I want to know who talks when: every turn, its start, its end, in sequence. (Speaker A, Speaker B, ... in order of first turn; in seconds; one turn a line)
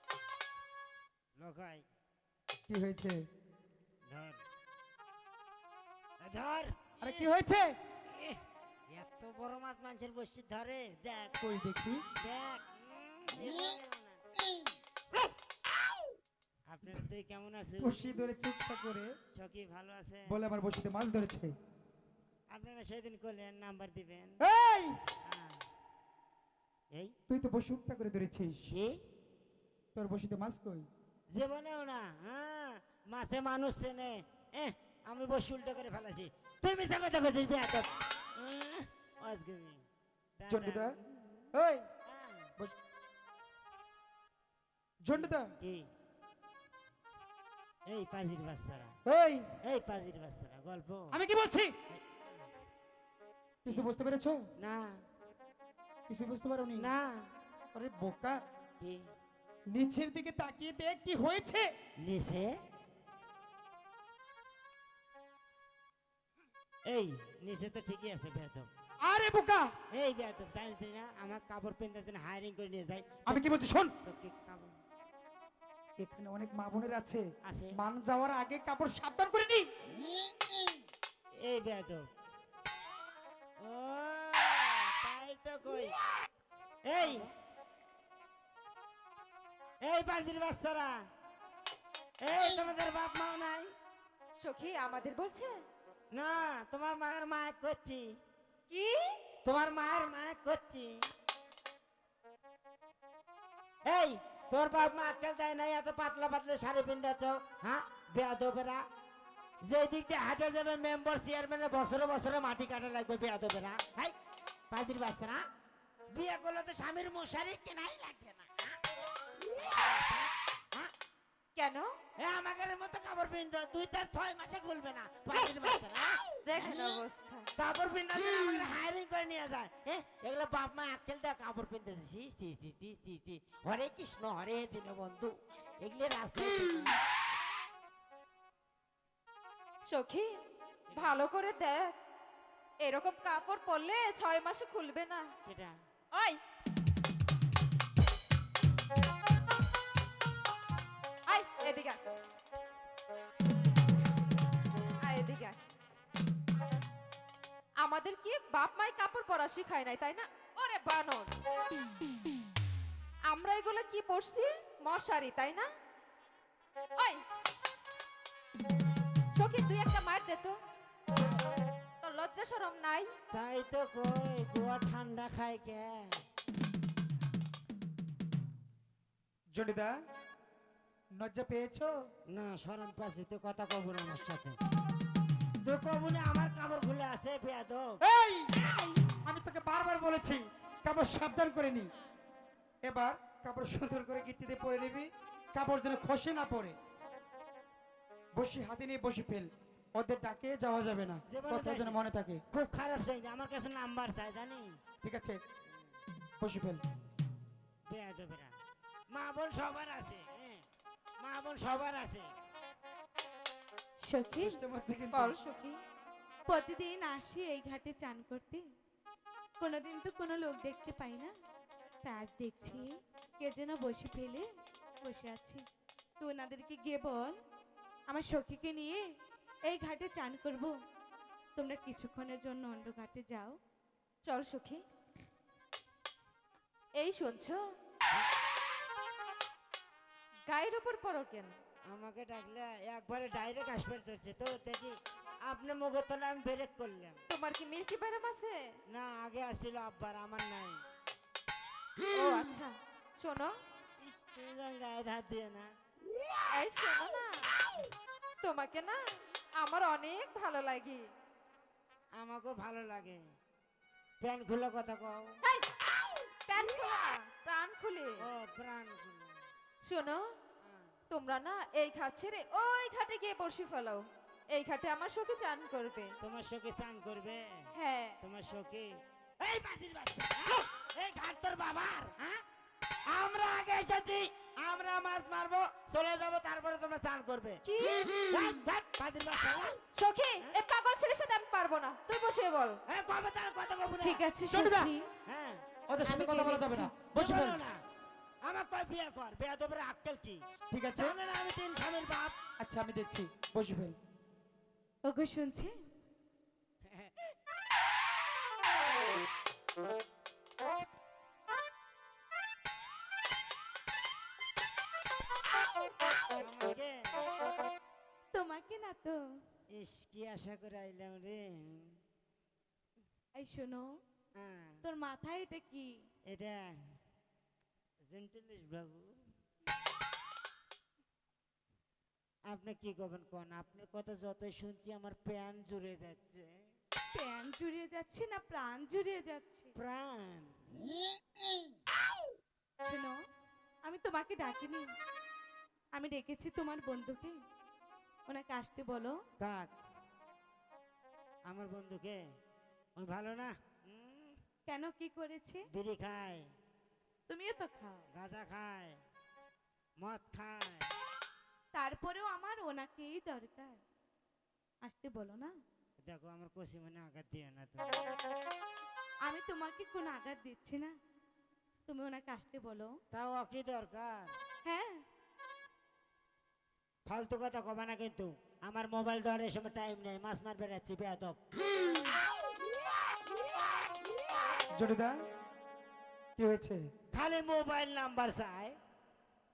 Speaker A: 1.4-1.9
Speaker B: 2.7-3.2
Speaker A: 4.1-4.4
Speaker A: 6.2-7.3
Speaker B: 7.0-7.7
Speaker A: 8.1-11.4
Speaker B: 11.4-12.0
Speaker A: 12.2-14.2
Speaker A: 16.7-18.0
Speaker B: 17.8-19.1
Speaker A: 19.3-20.3
Speaker B: 20.3-21.5
Speaker A: 22.5-24.4
Speaker B: 24.4-25.0
Speaker A: 25.3-25.6
Speaker B: 27.3-28.7
Speaker A: 28.7-29.0
Speaker B: 29.9-30.9
Speaker A: 31.3-39.8
Speaker A: 40.4-41.5
Speaker B: 40.5-41.0
Speaker B: 41.5-41.8
Speaker A: 42.1-42.5
Speaker B: 45.0-45.5
Speaker A: 45.1-45.9
Speaker A: 47.9-49.0
Speaker B: 49.0-49.5
Speaker A: 49.6-51.2
Speaker B: 51.1-51.7
Speaker B: 53.6-54.4
Speaker A: 54.6-55.0
Speaker B: 56.1-56.9
Speaker A: 56.8-57.3
Speaker B: 57.7-58.4
Speaker A: 58.8-59.1
Speaker B: 59.7-61.7
Speaker A: 62.0-62.5
Speaker A: 66.9-68.7
Speaker B: 69.0-69.7
Speaker A: 69.9-74.8
Speaker B: 73.3-73.9
Speaker B: 76.0-79.7
Speaker A: 77.4-77.8
Speaker A: 81.3-82.0
Speaker A: 83.6-86.0
Speaker A: 86.9-87.3
Speaker A: 89.8-90.9
Speaker A: 92.2-93.7
Speaker C: 94.4-95.6
Speaker A: 96.1-98.1
Speaker C: 98.7-99.1
Speaker A: 99.5-100.9
Speaker A: 103.8-108.8
Speaker A: 109.6-114.2
Speaker A: 114.7-115.4
Speaker A: 116.1-118.8
Speaker A: 119.5-120.9
Speaker C: 121.6-121.9
Speaker A: 122.2-127.0
Speaker C: 126.4-127.5
Speaker A: 127.6-137.0
Speaker C: 139.9-140.3
Speaker A: 140.9-141.2
Speaker C: 140.9-141.9
Speaker C: 142.8-145.3
Speaker A: 145.4-145.8
Speaker C: 146.1-146.4
Speaker C: 151.3-152.0
Speaker C: 155.0-155.6
Speaker C: 157.8-161.3
Speaker C: 163.3-165.7
Speaker C: 167.0-167.2
Speaker C: 169.3-170.6
Speaker C: 172.0-173.1
Speaker A: 173.3-176.2
Speaker B: 179.5-179.9
Speaker B: 181.2-181.9
Speaker A: 182.3-184.6
Speaker A: 185.6-188.0
Speaker B: 188.0-188.5
Speaker A: 188.6-189.1
Speaker B: 189.3-191.9
Speaker B: 192.8-196.8
Speaker B: 198.4-202.4
Speaker A: 201.3-204.8
Speaker B: 205.0-205.4
Speaker B: 206.4-206.8
Speaker A: 207.9-208.5
Speaker A: 209.1-210.7
Speaker A: 211.2-212.3
Speaker D: 214.0-214.6
Speaker B: 214.4-215.3
Speaker C: 215.1-215.8
Speaker D: 216.5-218.7
Speaker D: 219.6-221.3
Speaker D: 222.0-224.5
Speaker D: 225.0-225.6
Speaker D: 226.2-227.4
Speaker D: 228.1-229.0
Speaker D: 229.7-230.7
Speaker D: 231.6-233.6
Speaker C: 234.2-234.8
Speaker C: 237.0-237.6
Speaker C: 240.5-241.6
Speaker A: 241.9-247.2
Speaker C: 247.3-248.6
Speaker A: 248.9-250.8
Speaker C: 252.1-253.6
Speaker A: 254.0-255.7
Speaker C: 256.5-257.5
Speaker C: 258.4-259.0
Speaker C: 259.6-261.0
Speaker A: 262.2-263.2
Speaker A: 264.2-265.4
Speaker C: 266.5-268.2
Speaker A: 268.2-269.4
Speaker C: 269.8-270.2
Speaker A: 270.6-270.9
Speaker C: 271.1-276.1
Speaker A: 276.2-277.7
Speaker C: 277.8-278.2
Speaker A: 278.2-278.9
Speaker A: 279.4-282.4
Speaker A: 283.1-287.6
Speaker C: 287.6-288.1
Speaker A: 288.3-289.8
Speaker C: 289.9-292.8
Speaker A: 292.9-294.2
Speaker D: 294.0-295.1
Speaker B: 294.5-294.9
Speaker A: 295.3-295.6
Speaker B: 295.9-297.6
Speaker D: 296.1-296.9
Speaker A: 297.1-297.8
Speaker A: 298.4-300.4
Speaker B: 300.7-301.2
Speaker A: 301.0-302.4
Speaker B: 302.6-304.0
Speaker D: 305.1-305.7
Speaker A: 306.9-307.3
Speaker A: 316.3-317.3
Speaker D: 318.3-319.2
Speaker A: 319.7-321.9
Speaker D: 323.4-323.9
Speaker A: 324.4-324.8
Speaker D: 324.8-325.9
Speaker A: 326.3-326.6
Speaker A: 328.1-329.2
Speaker A: 332.5-336.5
Speaker D: 337.1-339.7
Speaker A: 339.8-340.5
Speaker D: 342.8-343.2
Speaker D: 343.8-344.9
Speaker D: 346.0-347.4
Speaker D: 348.3-349.2
Speaker A: 349.4-349.7
Speaker A: 351.5-352.2
Speaker A: 353.0-354.4
Speaker D: 354.7-355.6
Speaker A: 355.7-356.4
Speaker D: 357.3-358.1
Speaker A: 358.1-359.0
Speaker A: 360.0-360.9
Speaker D: 361.7-363.8
Speaker D: 364.8-365.5
Speaker A: 366.0-368.0
Speaker D: 369.3-370.9
Speaker D: 371.9-372.9
Speaker A: 373.1-374.3
Speaker D: 374.6-375.0
Speaker A: 377.1-381.4
Speaker B: 384.7-385.1
Speaker B: 386.4-386.8
Speaker A: 387.1-388.8